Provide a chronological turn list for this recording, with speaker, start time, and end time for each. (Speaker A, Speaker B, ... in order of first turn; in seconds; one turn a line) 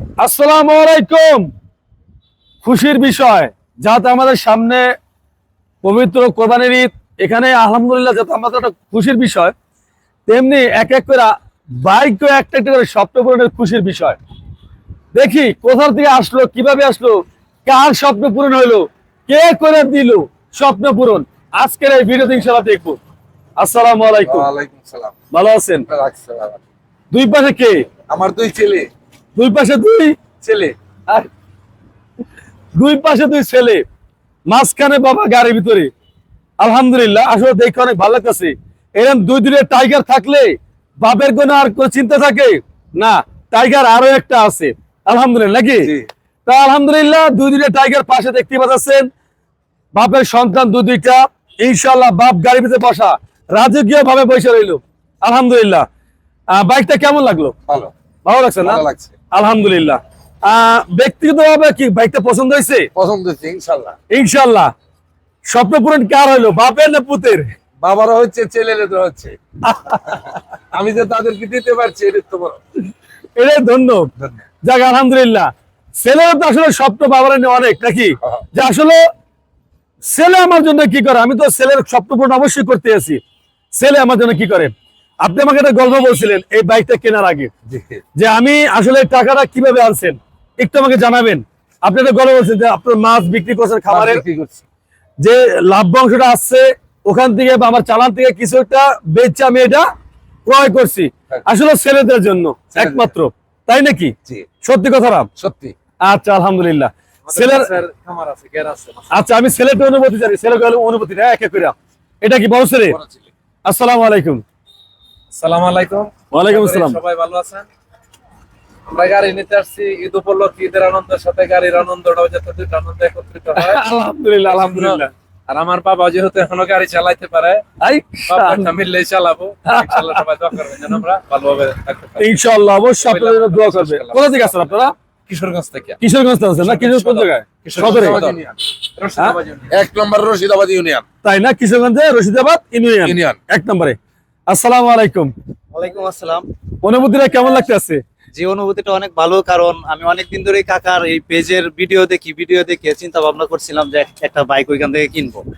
Speaker A: 0.2-1.5
Speaker A: 2.6-4.9
Speaker A: 5.8-9.5
Speaker A: 10.3-14.2
Speaker A: 15.1-23.0
Speaker A: 23.6-24.5
Speaker B: 24.2-25.1
Speaker A: 25.3-25.9
Speaker B: 25.9-26.6
Speaker A: 27.1-27.8
Speaker B: 28.1-28.9
Speaker A: 29.4-30.1
Speaker B: 30.4-30.7
Speaker A: 32.7-33.8
Speaker A: 34.5-35.9
Speaker A: 36.6-45.9
Speaker A: 46.5-49.1
Speaker A: 49.9-55.9
Speaker A: 56.5-57.5
Speaker A: 58.2-62.9
Speaker B: 58.6-59.1
Speaker B: 62.9-64.0
Speaker A: 64.1-64.7
Speaker A: 65.5-67.5
Speaker B: 67.8-69.4
Speaker A: 69.6-70.2
Speaker B: 70.1-72.6
Speaker A: 73.3-74.1
Speaker A: 74.6-79.0
Speaker A: 80.0-83.2
Speaker A: 83.7-87.5
Speaker B: 87.7-88.0
Speaker A: 88.2-94.2
Speaker B: 93.9-94.6
Speaker A: 95.2-99.9
Speaker A: 100.5-105.3
Speaker B: 105.4-105.7
Speaker A: 106.0-107.7
Speaker C: 107.2-109.2
Speaker A: 109.1-113.0
Speaker A: 113.6-114.4
Speaker C: 115.3-117.7
Speaker A: 116.3-117.0
Speaker C: 118.9-123.8
Speaker A: 123.6-125.1
Speaker C: 124.5-127.6
Speaker A: 127.8-128.7
Speaker C: 128.3-132.3
Speaker A: 129.7-130.2
Speaker A: 132.2-134.9
Speaker C: 133.0-136.0
Speaker A: 136.0-138.2
Speaker C: 136.6-138.4
Speaker B: 137.7-138.6
Speaker C: 138.9-139.8
Speaker B: 139.7-141.0
Speaker A: 141.2-144.0
Speaker B: 143.0-143.4
Speaker A: 144.5-145.3
Speaker D: 145.7-146.4
Speaker A: 146.8-148.0
Speaker D: 148.3-155.4